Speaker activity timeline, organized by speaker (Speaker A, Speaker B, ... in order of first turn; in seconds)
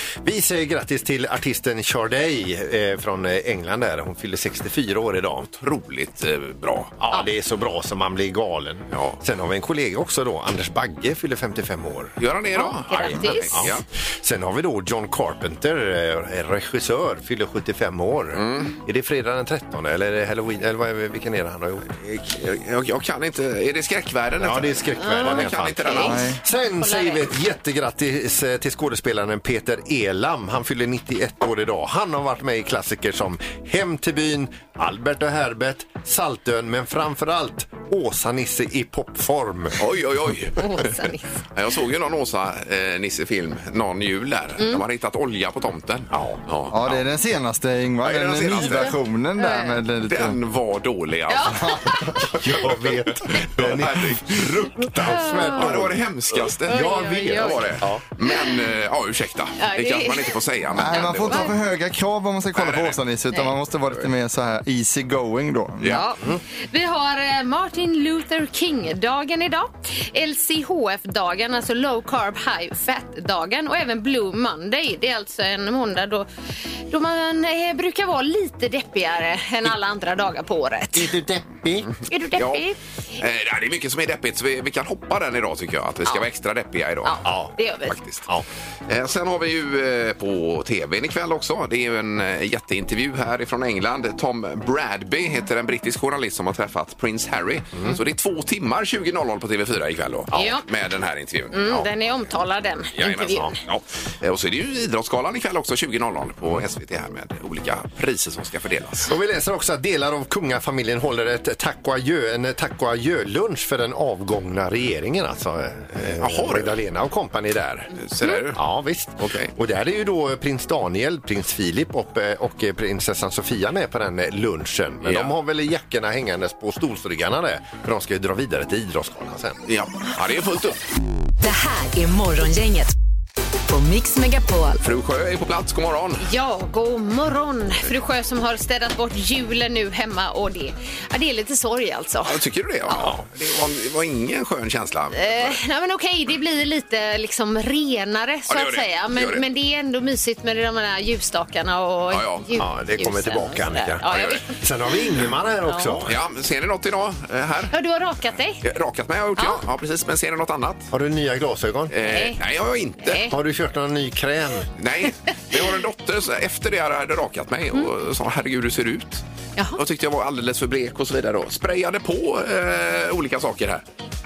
Speaker A: 0.2-5.5, 7.0-12.2, 13.1-21.9, 24.4-39.8, 46.1-46.4, 52.3-58.0, 80.9-81.9, 87.2-87.5, 109.1-118.0, 118.6-129.6, 152.6-156.1, 160.9-161.9, 163.3-164.7
Speaker B: 5.6-7.0, 8.9-9.2, 12.2-13.8, 18.3-18.8, 22.0-26.3, 39.8-40.9, 41.5-47.0, 48.0-48.9, 50.1-51.8, 53.6-61.5, 62.6-63.0, 81.9-82.7, 83.2-87.3, 87.9-88.3, 88.9-101.8, 103.0-109.1, 116.2-116.8, 117.9-118.6, 119.2-119.5, 125.0-125.3, 129.7-130.8, 134.8-136.2, 142.2-145.6, 148.5-149.4, 152.1-152.5, 154.1-154.4, 156.1-157.7, 158.6-160.9, 161.9-163.3, 164.8-169.2, 169.8-173.8
Speaker C: 12.6-13.6, 25.0-27.3, 40.6-41.3, 49.4-49.8, 51.3-52.3, 55.0-55.7, 56.7-57.7, 58.2-58.6, 59.6-60.4, 60.9-61.5, 65.9-76.3, 76.9-81.2, 82.1-82.8, 87.0-88.0, 100.3-100.6, 101.5-103.6, 136.2-143.1, 145.1-154.6, 155.7-156.0, 157.7-158.6, 159.4-159.6, 162.0-162.4, 163.0-163.3
Speaker D: 26.0-26.4, 46.7-50.4, 60.7-66.0
Speaker E: 131.4-132.9, 133.7-134.8